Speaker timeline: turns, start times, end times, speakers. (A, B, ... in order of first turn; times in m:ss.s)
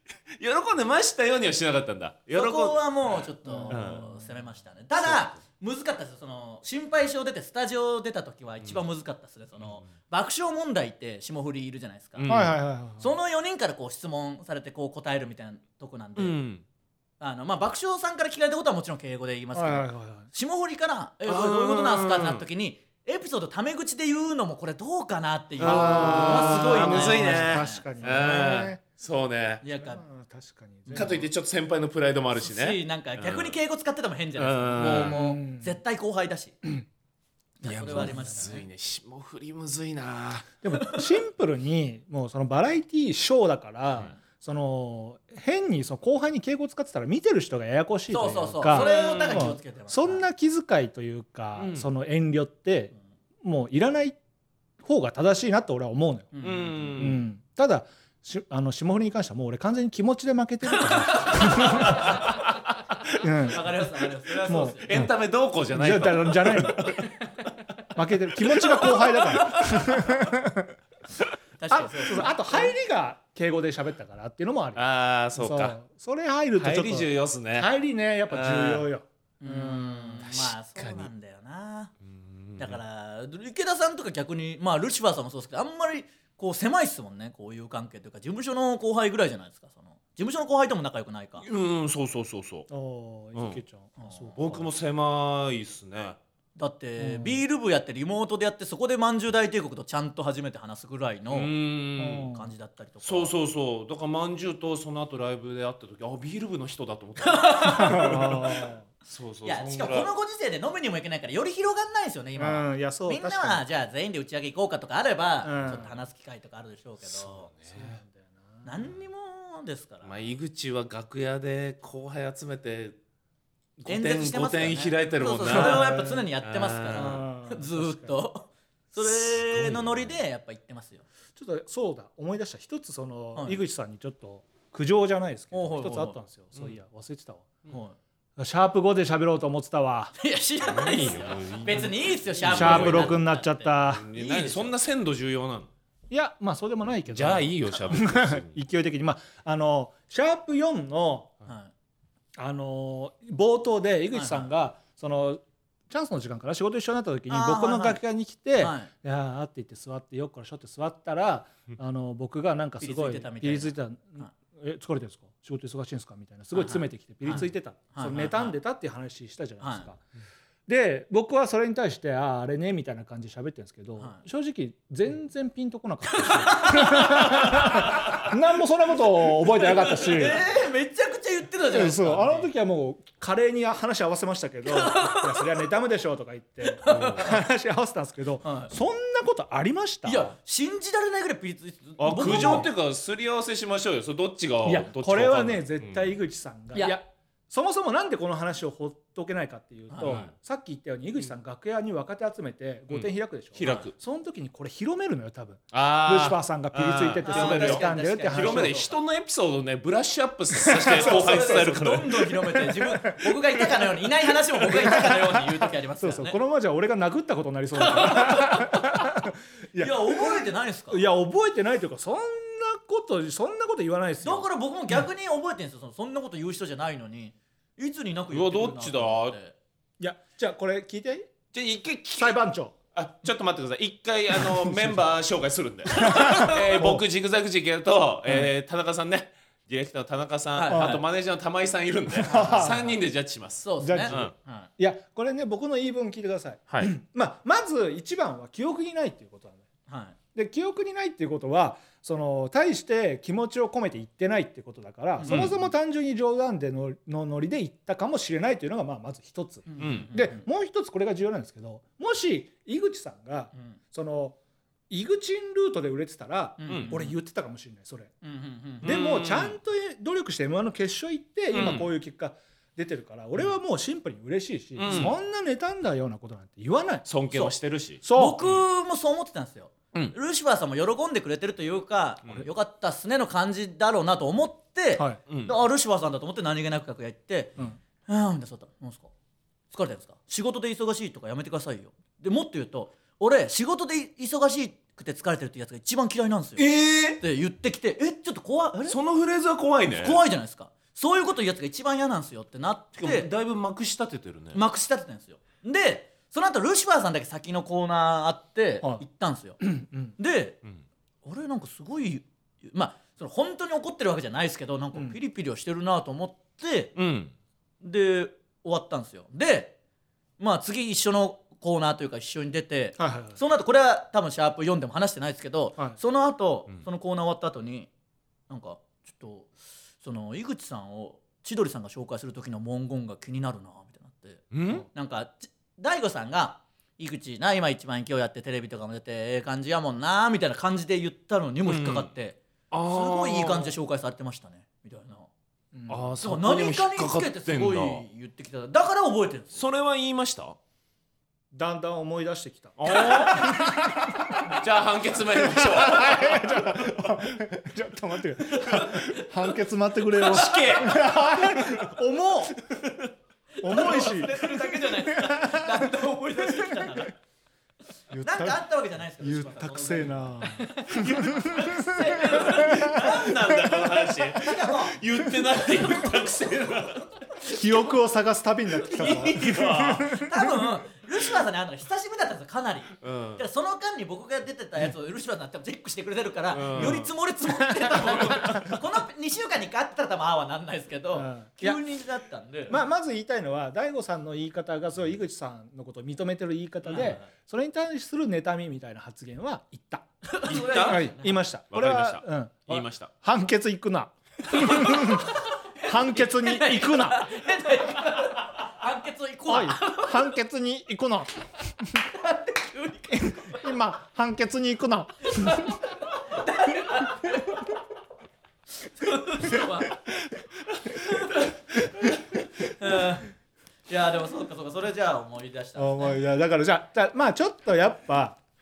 0:00.4-0:04.1 A
0:02.3-0:12.3 B
0:03.4-0:04.0 C
0:05.0-0:05.3 A
0:12.2-0:12.6 A
0:12.3-0:13.1 C
0:13.0-0:16.4 B
0:16.2-0:16.6 A
0:17.2-0:27.9 B
0:19.5-0:20.3 C
0:21.3-0:22.4 A
0:25.6-0:28.8 C
0:25.6-0:29.6 A
0:29.6-0:30.0 B
0:29.7-0:31.2 C
0:30.9-0:31.2 B
0:30.9-0:33.6 A
0:32.4-0:36.6 B
0:34.4-0:35.2 A
0:34.8-0:35.8 C
0:37.6-0:38.7 B
0:37.6-0:40.5 A
0:37.9-0:38.5 C
0:40.6-0:54.2 C
0:48.1-0:50.2 B
0:48.6-0:49.5 A
0:51.6-0:51.9 A
0:54.8-0:56.4 C
0:56.3-0:57.0 B
0:56.4-0:57.2 A
0:56.9-1:02.2 C
1:00.7-1:02.3 B
1:01.4-1:07.5 A
1:03.2-1:03.6 C
1:03.4-1:04.9 B
1:04.5-1:05.1 C
1:05.7-1:06.9 C
1:07.9-1:10.7 C
1:08.4-1:09.6 A
1:09.4-1:10.1 B
1:11.6-1:12.7 B
1:11.7-1:14.8 C
1:14.8-1:15.8 A
1:15.4-1:20.2 C
1:16.6-1:17.7 A
1:18.3-1:18.9 A
1:19.4-1:21.9 B
1:20.2-1:21.1 A
1:22.0-1:22.8 A
1:22.6-1:31.4 B
1:31.4-1:32.7 A
1:32.7-1:34.6 C
1:33.3-1:33.6 A
1:34.0-1:34.6 B
1:34.4-1:36.2 A
1:36.6-1:41.5 B
1:37.0-1:37.4 C
1:41.3-1:42.3 A
1:42.0-1:42.5 C
1:42.2-1:43.3 B
1:43.0-1:48.4 A
1:47.2-1:48.4 B
1:47.7-1:48.8 C
1:49.0-1:50.1 A
1:49.4-1:57.5 B
1:52.4-1:53.6 C
1:55.4-1:55.9 C
1:57.0-1:58.0 A
1:57.7-1:58.7 C
1:58.6-2:00.3 B
2:00.0-2:03.0 A
2:03.8-2:07.2 A
2:03.8-2:11.0 B
2:05.5-2:06.3 C
2:06.9-2:08.2 C
2:09.0-2:10.2 A
2:11.4-2:17.6 C
2:13.3-2:13.6 B
2:15.5-2:16.2 B
2:17.7-2:18.0 B
2:18.4-2:20.1 C
2:20.2-2:24.7 B
2:20.6-2:23.2 A
2:22.4-2:24.0 C
2:23.8-2:25.7 A
2:26.1-2:31.3 C
2:27.1-2:28.6 A
2:31.4-2:31.7 B
2:32.4-2:50.0 C
2:34.1-2:34.5 B
2:37.3-2:38.0 B
2:38.6-2:38.9 B
2:42.8-2:44.3 B
2:46.5-2:48.6 B
2:49.6-2:49.9 B
2:50.7-3:00.4 C
2:56.1-2:58.2 B
2:59.6-3:02.5 B
3:01.7-3:10.3 C
3:04.6-3:05.4 B
3:06.6-3:07.3 B
3:06.8-3:07.3 A
3:08.4-3:08.7 B
3:10.0-3:12.7 B
3:12.0-3:16.1 A
3:12.2-3:12.7 C
3:14.6-3:28.8 C
3:19.9-3:20.2 B
3:20.0-3:20.3 A
3:22.9-3:23.9 A
3:23.6-3:23.9 B
3:25.7-3:32.3 A
3:27.2-3:29.0 B
3:30.6-3:33.4 C
3:30.9-3:36.4 B
3:34.6-3:44.4 C
3:37.8-3:39.0 B
3:39.8-3:41.0 B
3:44.2-3:49.5 B
3:48.3-3:49.4 A
3:50.0-3:51.3 C
3:51.5-3:52.4 A
3:52.2-3:52.8 C
3:52.9-4:04.3 A
3:56.0-3:56.6 B
3:56.0-3:57.0 C
4:00.6-4:01.0 B
4:00.7-4:01.0 C
4:02.1-4:02.9 C
4:02.3-4:02.9 B
4:03.6-4:04.7 B
4:03.8-4:04.2 C
4:04.8-4:09.6 C
4:09.9-4:10.2 B
4:10.3-4:24.4 C
4:15.2-4:15.5 B
4:15.2-4:15.6 A
4:19.7-4:20.4 B
4:19.8-4:20.1 A
4:24.9-4:28.1 C
4:26.6-4:27.2 B
4:26.7-4:26.9 A
4:28.2-4:28.9 B
4:28.8-4:29.6 A
4:28.8-4:37.2 C
4:31.5-4:31.9 A
4:34.8-4:35.1 A
4:34.8-4:35.1 B
4:37.0-4:38.6 A
4:38.0-4:38.4 C
4:38.1-4:47.5 B
4:45.3-4:45.6 A
4:48.0-4:49.1 B
4:49.7-4:56.6 B
4:56.6-4:57.2 A
4:57.2-4:59.0 B
4:58.8-5:00.2 A
4:59.9-5:03.3 B
5:03.0-5:04.6 A
5:04.5-5:09.6 B
5:09.6-5:10.1 C
5:10.2-5:10.6 B
5:11.2-5:16.9 B
5:17.0-5:17.3 A
5:17.8-5:19.7 B
5:20.4-5:27.9 B
5:23.0-5:23.4 C
5:28.5-5:45.3 B
5:34.5-5:34.9 A
5:41.6-5:42.1 A
5:42.7-5:43.7 A
5:45.7-5:46.1 C
5:45.9-5:48.0 A
5:46.2-5:49.6 B
5:49.5-5:50.6 A
5:51.5-5:54.6 C
5:52.8-5:57.3 A
5:52.9-5:53.8 B
5:55.4-6:02.6 C
5:58.5-5:59.2 B
6:00.2-6:01.9 A
6:02.7-6:03.1 A
6:03.6-6:07.2 B
6:03.6-6:07.0 C
6:08.1-6:08.6 C
6:08.2-6:15.0 B
6:09.2-6:13.9 C
6:10.9-6:17.1 A
6:15.9-6:16.2 B
6:17.5-6:20.5 C
6:18.8-6:20.3 A
6:20.0-6:32.8 B
6:23.0-6:23.4 A
6:26.5-6:27.1 A
6:26.7-6:27.1 C
6:27.9-6:28.7 C
6:28.1-6:28.8 A
6:31.1-6:31.8 C
6:32.7-6:40.1 C
6:36.8-6:37.3 B
6:40.3-6:41.4 B
6:40.4-6:41.0 A
6:40.8-6:47.3 C
6:41.7-6:43.1 A
6:44.5-6:50.3 B
6:49.5-6:52.0 C
6:52.1-6:53.6 B
6:53.1-6:55.9 C
6:55.4-6:57.7 B
6:58.8-7:00.0 B
7:01.0-7:01.5 B
7:02.7-7:03.3 B
7:03.9-7:06.2 B
7:05.8-7:08.4 C